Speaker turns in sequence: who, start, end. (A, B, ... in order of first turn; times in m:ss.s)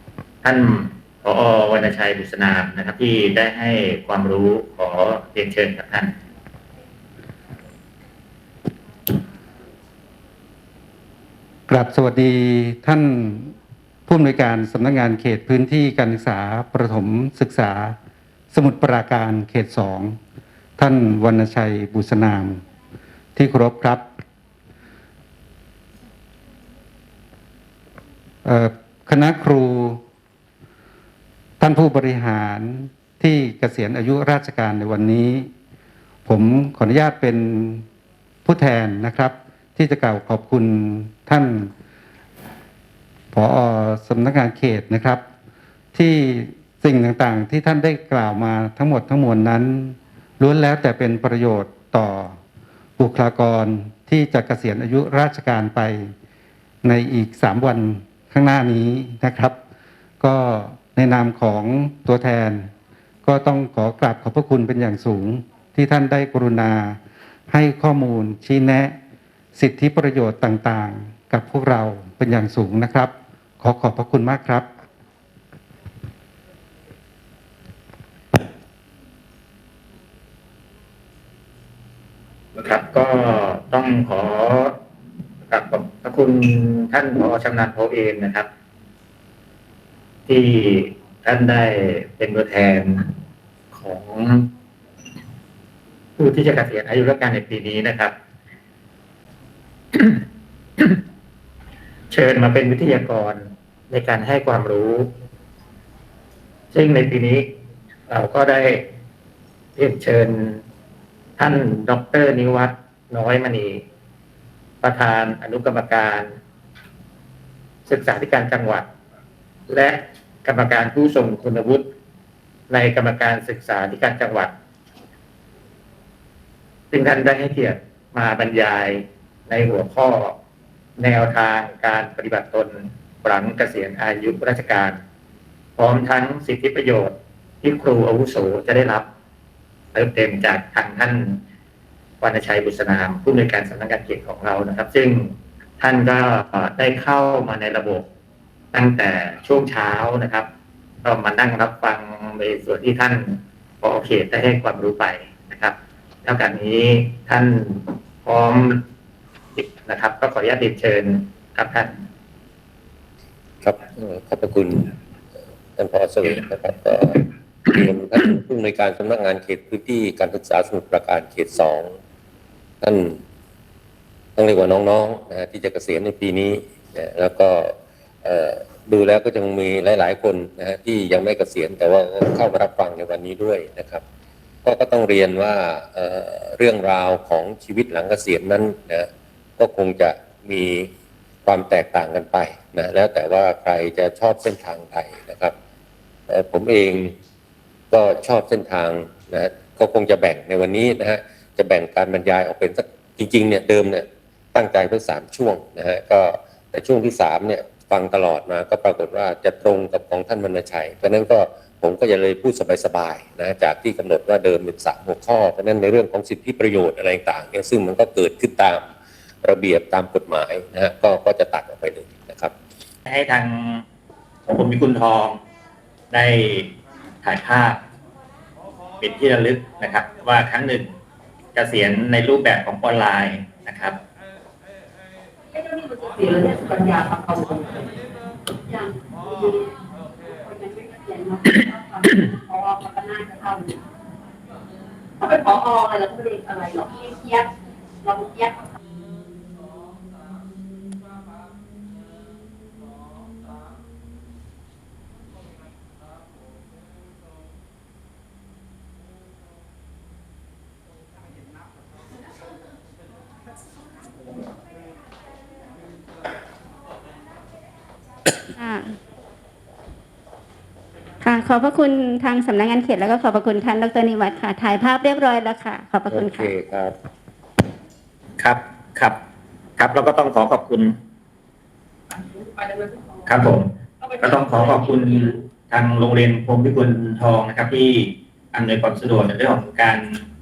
0:00.4-0:06.1 A
0:11.7-0:13.5 B
0:14.1-0:18.0 B
0:18.5-0:20.2 B
0:20.8-0:22.6 B
0:23.4-0:24.1 B
0:28.4-0:30.0 B
0:31.6-0:35.5 B
0:36.3-0:37.8 B
0:38.4-0:41.7 B
0:43.3-0:45.2 B
0:45.9-0:52.4 B
0:53.0-0:56.1 B
0:56.8-0:59.6 B
1:00.2-1:02.7 B
1:03.2-1:09.0 B
1:09.6-1:14.7 B
1:22.6-1:24.8 A
1:25.5-1:28.5 A
1:30.3-1:33.1 A
1:33.7-1:34.5 A
1:36.2-1:38.1 A
1:39.9-1:40.2 A
1:42.1-1:45.1 A
1:46.7-1:47.5 A
1:48.1-1:48.9 A
1:49.8-1:50.6 A
1:51.4-1:53.8 A
1:54.8-1:56.3 A
1:57.9-1:58.9 A
1:59.7-2:01.9 A
2:02.7-2:04.5 A
2:06.9-2:10.4 A
2:11.0-2:15.0 A
2:15.8-2:19.1 A
2:19.9-2:21.4 A
2:22.2-2:28.1 A
2:28.7-2:30.5 A
2:31.0-2:38.8 A
2:39.6-2:42.0 A
2:43.6-2:44.9 C
2:45.8-2:52.0 C
2:52.8-2:53.2 C
2:54.4-3:04.0 C
3:04.6-3:10.9 C
3:11.5-3:15.5 C
3:16.3-3:17.2 C
3:17.9-3:38.9 C
3:39.4-3:42.5 C
3:43.1-3:43.8 A
3:44.5-3:45.4 A
3:46.1-3:47.8 A
3:49.0-3:50.9 A
3:51.6-3:54.0 A
3:55.5-3:57.8 D
3:58.6-3:59.8 D
4:00.3-4:03.8 D
4:05.2-4:07.5 D
4:08.0-4:08.7 D
4:28.6-4:29.0 E
4:31.2-4:36.5 E
4:36.1-4:36.9 C
4:38.4-4:39.2 A
4:39.8-4:41.0 A
4:42.1-4:43.4 D
4:43.3-4:50.2 A
4:44.0-4:45.4 D